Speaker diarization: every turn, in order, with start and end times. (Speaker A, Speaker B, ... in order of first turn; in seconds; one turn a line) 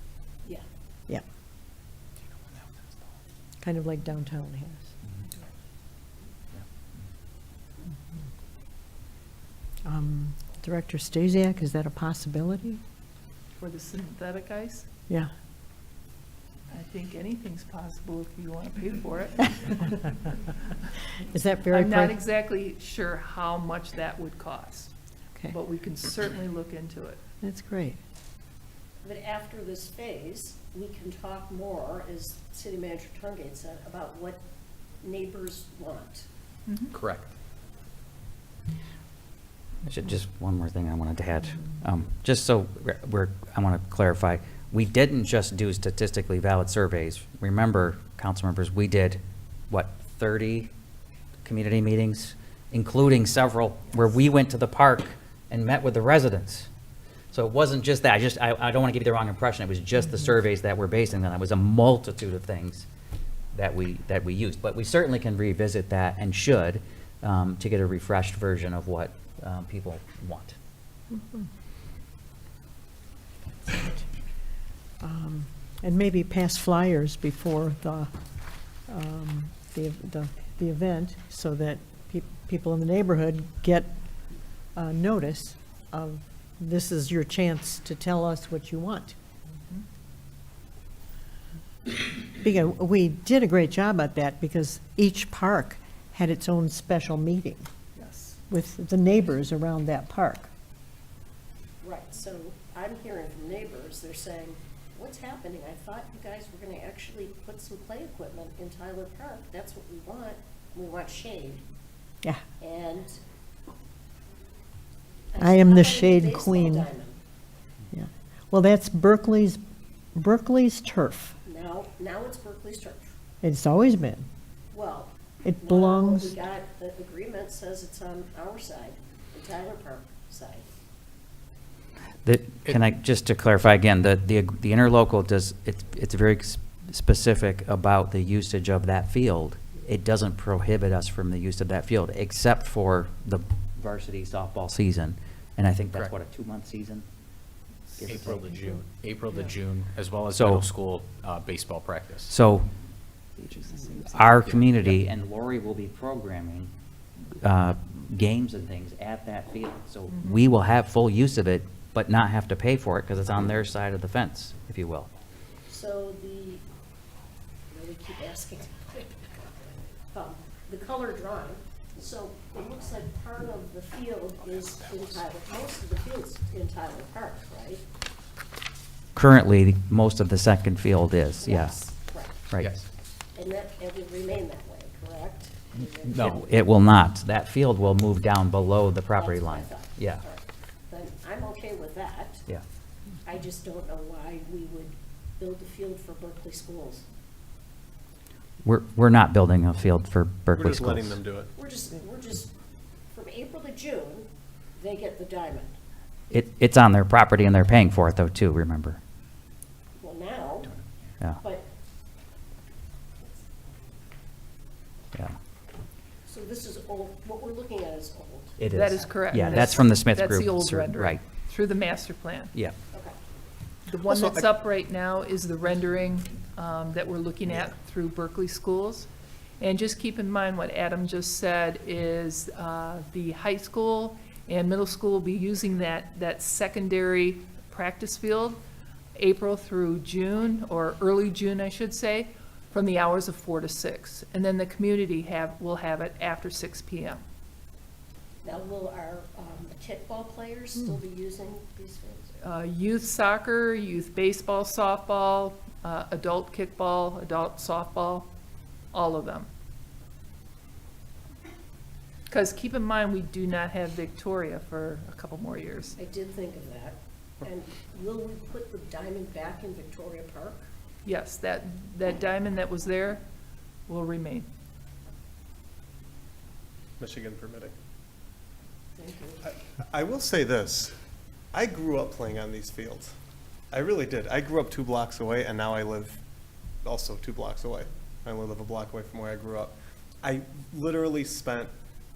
Speaker A: 3.6-4.9
Speaker A: 9.8-12.8
Speaker B: 13.6-14.8
Speaker B: 16.7-20.1
Speaker A: 21.3-22.2
Speaker B: 21.7-24.9
Speaker B: 25.5-27.2
Speaker A: 27.4-28.0
Speaker C: 29.0-34.4
Speaker C: 35.0-36.2
Speaker B: 36.7-36.9
Speaker D: 37.0-37.2
Speaker E: 39.9-50.7
Speaker E: 51.4-56.7
Speaker E: 57.3-62.9
Speaker E: 63.5-70.5
Speaker A: 71.2-71.4
Speaker A: 75.0-78.1
Speaker A: 78.9-84.0
Speaker A: 84.7-89.2
Speaker A: 92.4-97.7
Speaker B: 98.0-98.4
Speaker A: 98.5-100.5
Speaker C: 101.8-111.6
Speaker C: 112.6-113.1
Speaker C: 115.3-117.2
Speaker A: 115.4-116.9
Speaker A: 117.9-119.6
Speaker A: 120.2-121.3
Speaker C: 121.4-123.1
Speaker A: 123.4-124.3
Speaker C: 124.7-130.7
Speaker A: 125.4-126.3
Speaker E: 132.2-147.1
Speaker E: 148.0-148.8
Speaker D: 148.0-152.3
Speaker E: 150.3-150.7
Speaker E: 152.3-152.7
Speaker E: 153.9-156.7
Speaker D: 154.3-155.0
Speaker E: 157.4-165.1
Speaker B: 160.1-160.4
Speaker C: 165.7-166.6
Speaker C: 167.7-169.5
Speaker C: 170.1-177.8
Speaker E: 179.2-181.8
Speaker C: 181.4-182.5
Speaker E: 182.5-182.8
Speaker D: 182.6-182.8
Speaker C: 183.3-186.6
Speaker E: 186.0-190.2
Speaker C: 189.1-192.5
Speaker C: 193.2-197.0
Speaker E: 198.6-201.2
Speaker F: 200.6-201.5
Speaker C: 201.5-202.5
Speaker C: 203.1-205.8
Speaker E: 206.3-209.0
Speaker C: 210.0-210.7
Speaker C: 211.4-211.7
Speaker C: 216.3-219.9
Speaker E: 218.6-221.2
Speaker B: 218.7-222.5
Speaker B: 223.9-229.1
Speaker F: 224.1-224.5
Speaker B: 229.6-238.6
Speaker B: 239.2-247.2
Speaker C: 248.4-252.3
Speaker B: 252.4-258.3
Speaker B: 258.9-259.5
Speaker B: 262.3-265.9
Speaker C: 266.0-270.6
Speaker B: 271.0-273.2
Speaker B: 273.9-274.5
Speaker F: 277.0-277.7
Speaker C: 279.0-279.4
Speaker F: 279.7-280.9
Speaker F: 281.5-283.1
Speaker F: 283.7-286.2
Speaker F: 286.8-291.7